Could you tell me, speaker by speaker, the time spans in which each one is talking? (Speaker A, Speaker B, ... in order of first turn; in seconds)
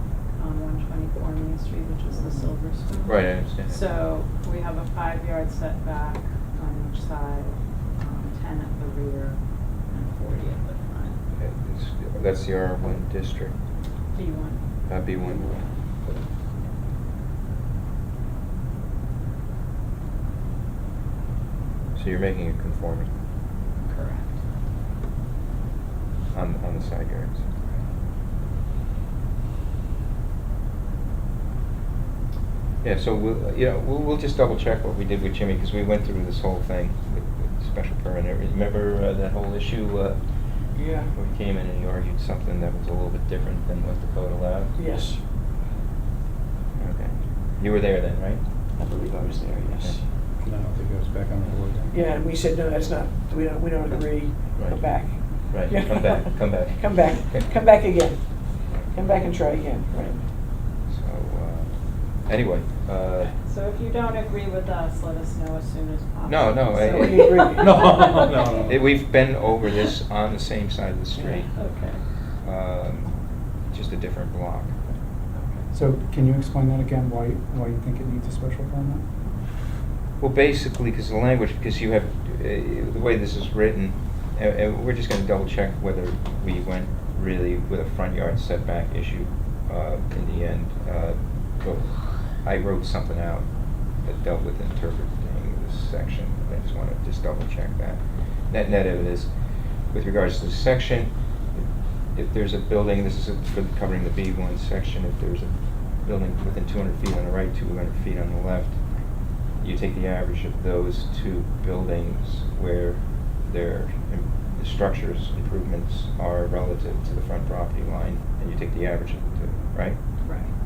Speaker A: 0.4-11.2, 14.1-14.6, 23.8-24.4, 63.2-68.7, 71.2-72.0, 120.2-120.5
Speaker B: 3.0-3.8, 11.4-13.5, 14.9-15.7, 21.9-23.1, 26.3-27.4, 32.8-44.7, 46.8-48.4, 54.6-54.8, 55.5-57.5, 60.9-63.3, 66.3-67.6, 68.7-71.5, 72.4-73.2, 73.7-74.8, 80.2-93.5, 94.0-99.3, 99.8-108.8, 109.6-120.0
Speaker C: 40.7-41.1, 44.8-45.2, 48.8-50.0, 51.9-58.2, 58.9-60.2, 66.8-68.1
Speaker D: 50.4-52.0, 67.6-68.8
Speaker E: 75.7-79.0